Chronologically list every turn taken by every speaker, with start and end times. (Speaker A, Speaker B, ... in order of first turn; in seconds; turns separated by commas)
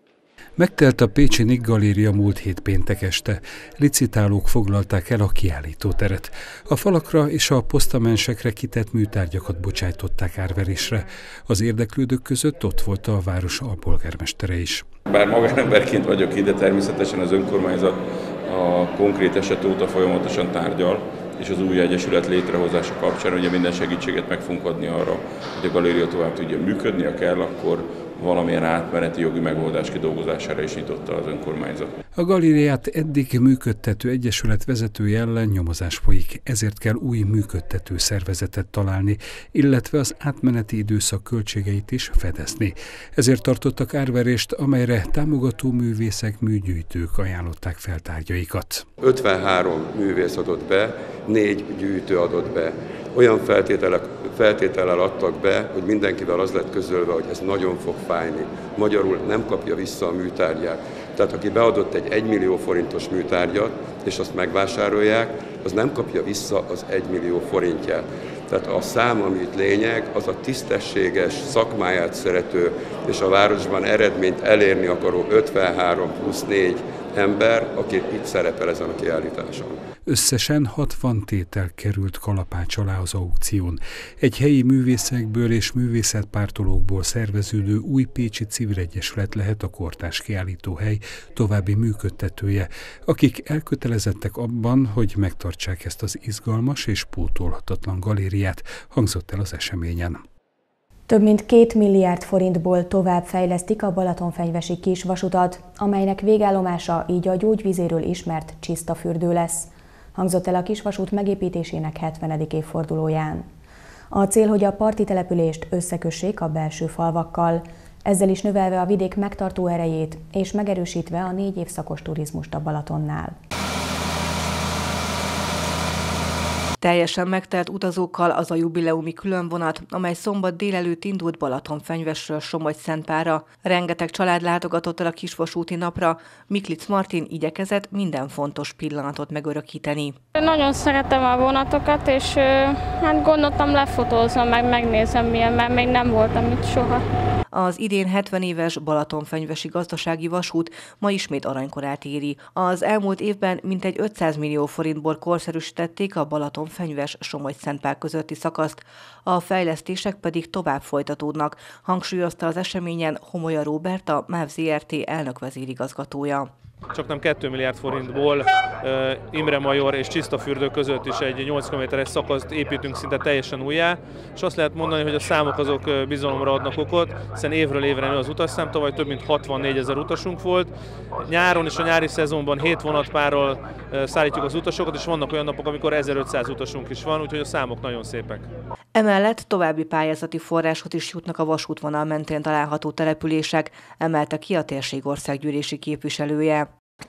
Speaker A: 0.6-14.8, Speaker B: 15.1-31.9, Speaker A: 32.1-48.8, Speaker C: 49.0-79.8, Speaker A: 80.0-100.2, Speaker D: 101.1-113.5, Speaker D: 114.1-123.3, Speaker E: 126.8-140.2, Speaker F: 140.3-147.0, Speaker E: 147.5-166.5, Speaker G: 166.9-180.7, Speaker G: 181.2-188.5, Speaker E: 188.9-196.7